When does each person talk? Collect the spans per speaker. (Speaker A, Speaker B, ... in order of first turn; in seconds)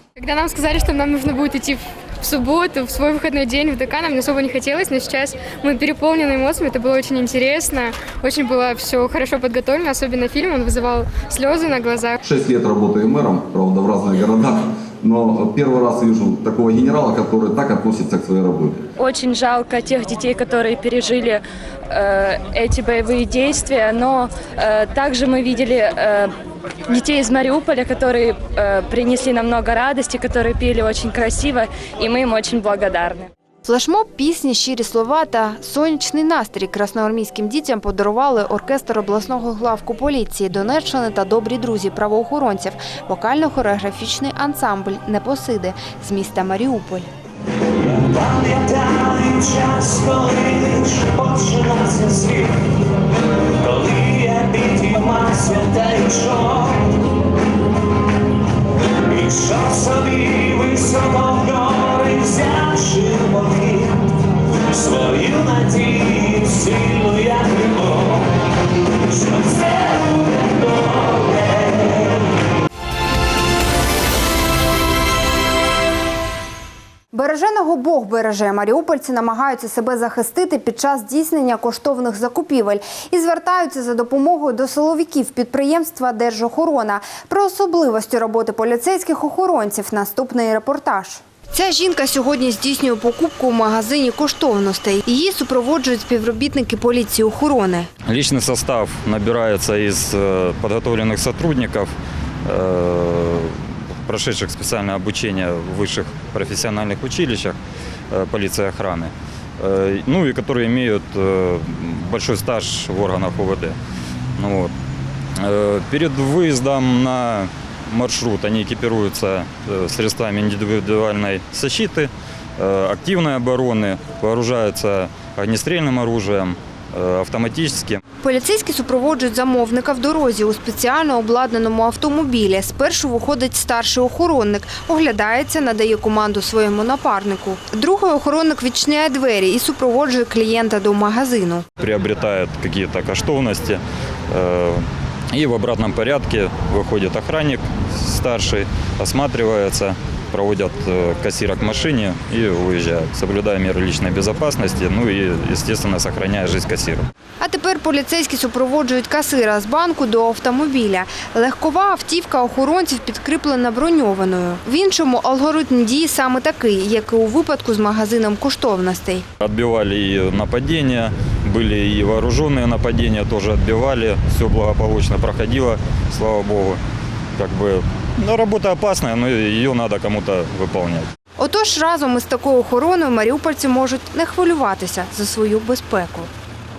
Speaker A: 0.2-12.2
Speaker B: 12.2-18.8
Speaker C: 19.0-26.3, 26.9-33.3
Speaker D: 33.7-47.1, 77.1-97.9, 128.2-141.7, 157.4-169.3, 181.4-186.3
Speaker E: 48.0-52.5, 53.6-56.7, 59.1-64.0, 64.8-68.0, 69.2-69.8
Speaker F: 98.1-101.9, 102.5-107.6, 108.1-113.8, 114.4-114.7, 115.4-128.0, 141.8-157.1, 169.4-176.8, 177.4-181.1